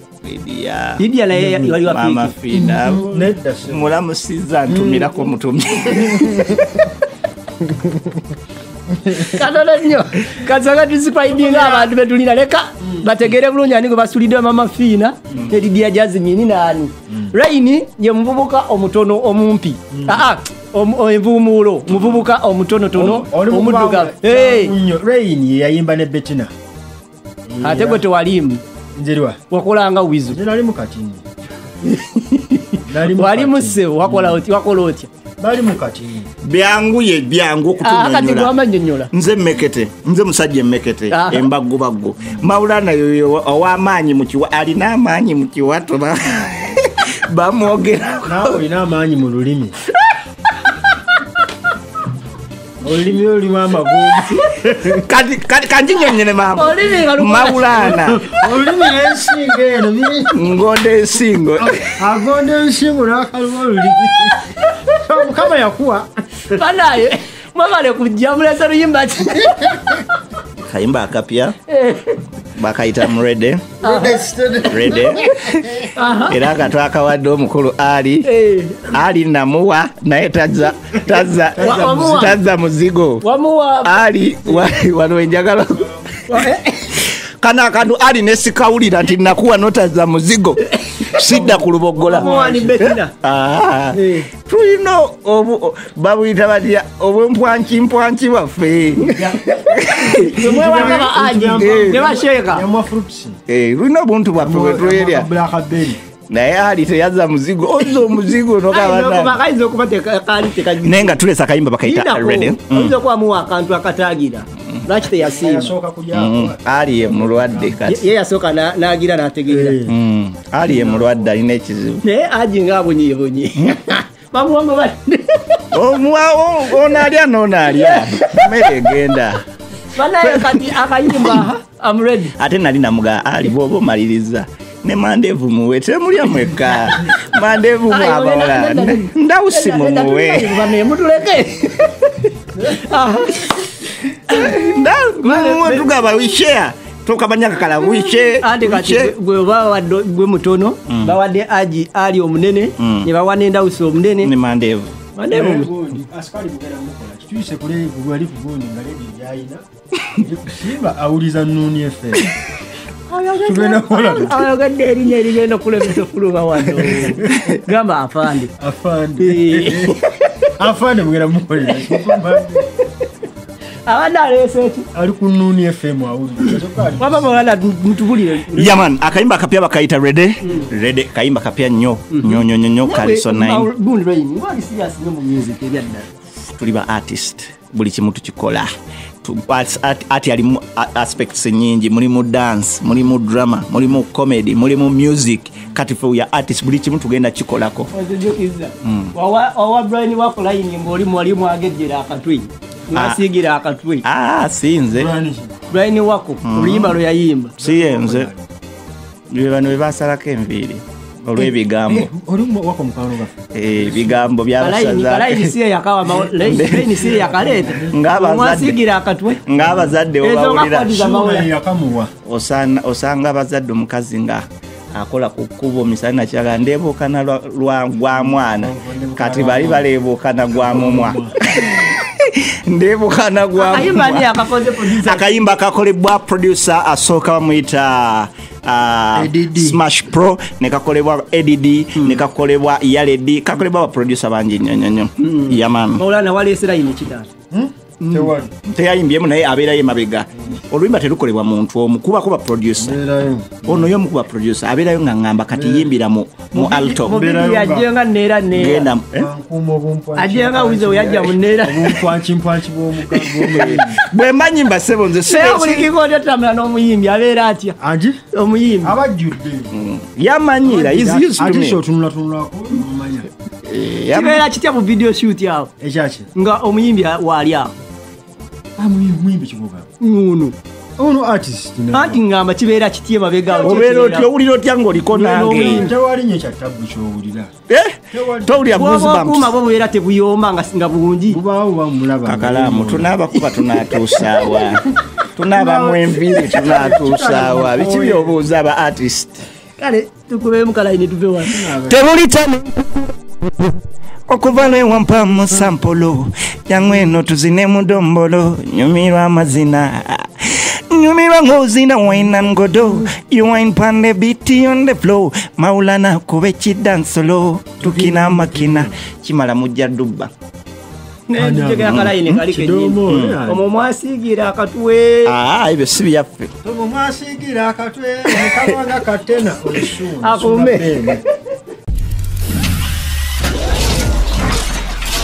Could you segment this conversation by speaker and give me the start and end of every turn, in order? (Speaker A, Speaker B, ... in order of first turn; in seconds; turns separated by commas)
Speaker A: 0.2-1.0, Speaker B: 1.0-2.4, Speaker C: 1.3-1.7, Speaker A: 1.7-6.7, Speaker C: 2.5-3.9, Speaker C: 4.7-5.2, Speaker C: 5.9-6.8, Speaker C: 7.6-8.2, Speaker C: 8.9-9.4, Speaker B: 9.2-24.7, Speaker C: 11.3-11.9, Speaker C: 19.9-20.2, Speaker A: 21.9-22.2, Speaker C: 22.9-26.5, Speaker C: 27.5-28.0, Speaker B: 27.6-28.6, Speaker C: 28.9-29.4, Speaker B: 29.5-30.4, Speaker C: 30.3-31.2, Speaker B: 31.9-35.1, Speaker C: 32.9-34.4, Speaker C: 35.4-36.3, Speaker A: 36.4-38.5, Speaker B: 37.8-39.1, Speaker A: 39.1-48.6, Speaker B: 41.1-41.5, Speaker C: 42.2-42.5, Speaker C: 48.2-49.7, Speaker C: 52.8-55.0, Speaker A: 54.5-58.3, Speaker B: 56.5-57.9, Speaker C: 57.8-60.3, Speaker A: 60.3-61.9, Speaker C: 61.6-66.1, Speaker B: 66.5-70.0, Speaker C: 69.5-70.0, Speaker A: 70.7-71.5, Speaker B: 71.7-72.2, Speaker A: 72.5-73.7, Speaker B: 73.8-74.3, Speaker C: 73.8-75.8, Speaker A: 74.7-78.2, Speaker B: 75.9-76.4, Speaker B: 78.2-78.9, Speaker A: 78.9-83.2, Speaker C: 80.9-82.4, Speaker B: 81.6-82.4, Speaker B: 83.2-84.0, Speaker A: 83.8-86.5, Speaker B: 86.3-87.0, Speaker A: 87.0-101.0, Speaker B: 90.8-91.5, Speaker B: 92.0-93.1, Speaker C: 92.1-92.7, Speaker B: 93.9-94.3, Speaker C: 99.0-103.4, Speaker B: 99.9-102.7, Speaker A: 101.6-102.0, Speaker A: 103.5-105.3, Speaker C: 104.4-106.0, Speaker A: 106.3-109.3, Speaker B: 108.7-111.2, Speaker A: 110.8-112.9, Speaker B: 111.8-115.7, Speaker C: 115.1-118.0, Speaker A: 116.1-118.0, Speaker B: 117.8-119.8, Speaker C: 119.5-120.0, Speaker A: 119.9-122.0, Speaker C: 120.6-121.3, Speaker B: 122.0-125.6, Speaker A: 125.7-129.4, Speaker B: 127.7-128.4, Speaker B: 129.9-132.3, Speaker A: 130.2-131.4, Speaker A: 132.4-140.7, Speaker B: 137.9-144.6, Speaker A: 144.3-149.1, Speaker B: 145.2-146.0, Speaker B: 148.3-154.3, Speaker A: 150.9-151.1, Speaker A: 152.8-153.1, Speaker A: 154.2-154.9, Speaker B: 155.2-155.7, Speaker C: 155.3-162.3, Speaker B: 163.1-168.5, Speaker C: 163.3-164.5, Speaker C: 166.8-167.5, Speaker C: 168.6-170.0, Speaker B: 169.2-170.1, Speaker C: 170.6-172.7, Speaker B: 171.7-172.9, Speaker B: 173.8-174.9, Speaker C: 174.9-177.4, Speaker B: 177.0-178.8, Speaker A: 178.5-183.7, Speaker B: 180.4-180.7, Speaker B: 182.1-186.1, Speaker A: 186.5-188.7, Speaker A: 189.2-197.9, Speaker B: 197.9-204.0, Speaker A: 198.8-199.1, Speaker A: 202.9-203.2, Speaker A: 204.0-205.1, Speaker C: 204.9-205.6, Speaker B: 205.7-207.5, Speaker A: 206.4-207.0, Speaker A: 207.6-208.3, Speaker C: 207.6-208.5, Speaker A: 209.3-212.1, Speaker C: 211.3-214.3, Speaker A: 213.5-215.5, Speaker B: 214.6-219.4, Speaker C: 216.1-218.0, Speaker A: 216.4-217.1, Speaker A: 217.9-218.8, Speaker A: 219.4-221.1, Speaker C: 219.5-220.0, Speaker B: 220.2-221.5, Speaker C: 220.9-222.1, Speaker A: 222.2-234.3, Speaker C: 228.1-229.9, Speaker C: 230.5-231.3, Speaker B: 233.6-235.5, Speaker A: 234.9-246.0, Speaker C: 239.1-239.8, Speaker B: 245.2-247.3, Speaker C: 247.5-248.5, Speaker A: 248.0-253.0, Speaker C: 252.8-253.9, Speaker A: 253.6-257.2, Speaker C: 255.5-255.9, Speaker B: 256.5-258.9, Speaker C: 257.0-257.9, Speaker A: 258.5-259.3, Speaker C: 259.1-264.0, Speaker B: 260.1-261.9, Speaker A: 263.4-265.9, Speaker B: 265.2-267.8, Speaker C: 267.8-268.2, Speaker B: 268.3-268.9, Speaker C: 268.8-269.7, Speaker A: 269.7-271.8, Speaker C: 270.6-273.3, Speaker A: 273.6-274.4, Speaker B: 274.1-275.7, Speaker C: 275.8-276.3, Speaker B: 276.3-277.7, Speaker C: 278.8-279.9, Speaker B: 280.0-280.6, Speaker C: 281.0-282.2, Speaker B: 281.9-284.3, Speaker C: 283.5-284.0, Speaker A: 283.6-285.9, Speaker B: 285.1-285.9, Speaker C: 285.4-287.5, Speaker A: 287.7-289.5, Speaker C: 288.1-288.8, Speaker B: 288.7-291.4, Speaker C: 291.3-293.2, Speaker A: 292.2-294.8, Speaker A: 295.4-299.4, Speaker C: 295.5-298.4, Speaker B: 299.8-301.5, Speaker C: 301.4-302.0, Speaker A: 301.8-303.0, Speaker A: 304.3-320.3, Speaker C: 312.2-313.1, Speaker C: 317.8-318.9, Speaker B: 321.3-325.3, Speaker C: 321.3-323.6, Speaker A: 321.9-322.4, Speaker A: 323.1-323.4, Speaker A: 325.2-326.5, Speaker C: 326.6-331.2, Speaker A: 328.3-328.7, Speaker B: 330.2-331.2